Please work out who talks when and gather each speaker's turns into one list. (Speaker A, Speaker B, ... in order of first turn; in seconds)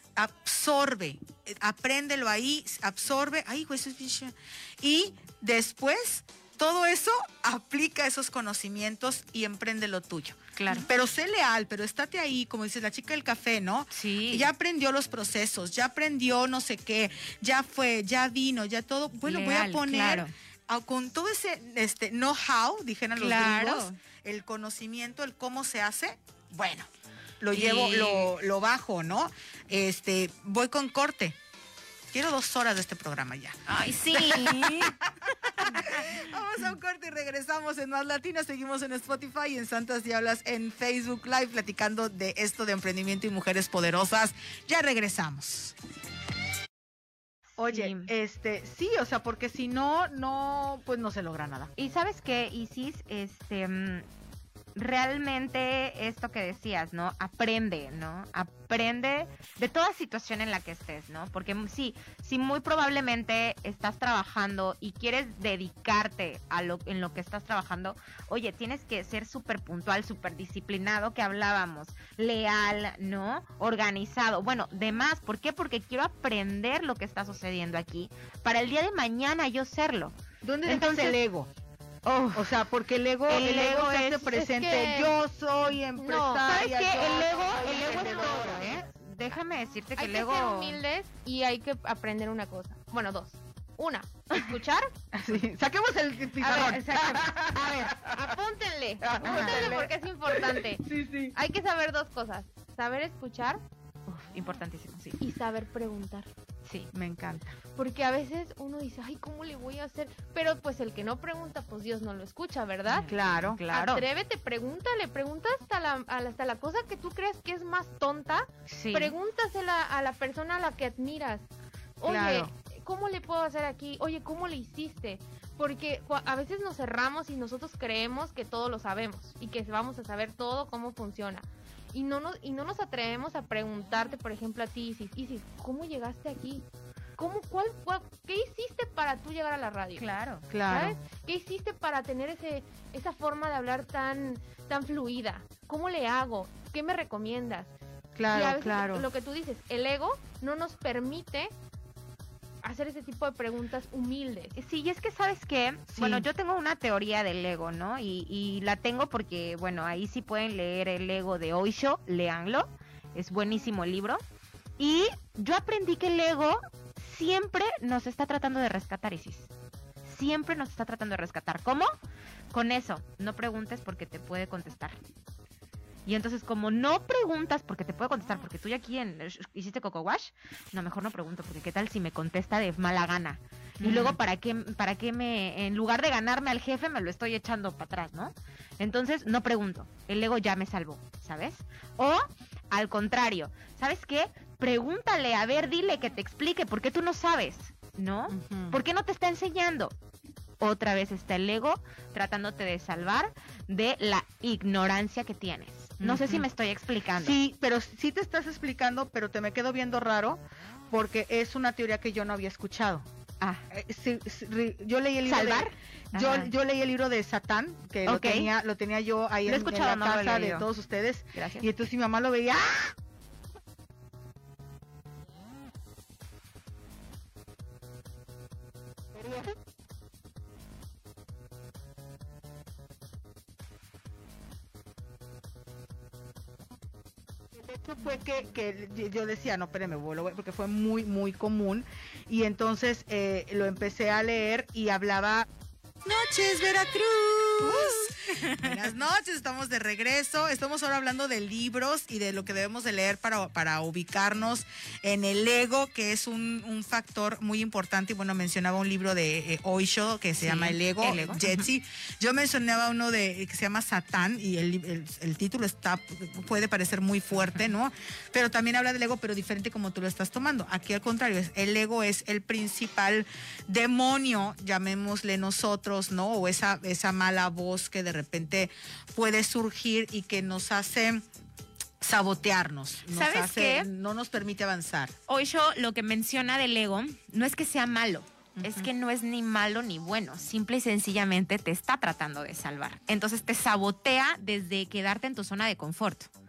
Speaker A: 0.2-26.9, 27.4-31.4, 32.1-45.8, 47.6-51.7, 80.4-81.5, 82.3-88.7, 95.1-98.2, 99.0-101.3, 106.9-107.6, 113.1-113.6, 122.0-122.5, 140.5-141.0, 148.2-149.1, 155.9-156.2, 183.8-184.2, 198.3-198.8, 206.0-206.4, 207.2-210.4, 210.9-213.1, 213.7-222.9, 237.5-245.4, 246.0-281.2, 282.0-285.1, 288.6-288.9
Speaker B: 10.6-10.9, 13.9-14.5, 19.2-20.3, 23.2-24.0, 27.5-28.3, 33.7-36.2, 47.7-48.1, 51.8-54.0, 54.7-81.2, 82.0-82.6, 83.3-84.3, 86.4-90.8, 96.4-97.9, 99.2-99.8, 104.1-105.2, 106.6-106.9, 112.8-114.0, 118.7-119.1, 139.9-140.5, 154.6-164.2, 164.8-169.5, 170.0-171.9, 172.5-175.0, 176.1-199.9, 200.6-207.3, 215.2-216.5, 218.1-218.5, 219.4-220.7, 221.3-221.7, 247.6-248.9, 260.4-261.7, 283.1-283.9, 285.3-296.3
Speaker C: 84.2-85.1, 86.0-86.6, 87.4-88.7, 90.0-94.9, 96.5-103.6, 105.2-106.3, 107.8-113.1, 113.7-121.5, 122.0-136.7, 137.2-140.1, 140.7-147.7, 148.3-151.5, 152.6-154.6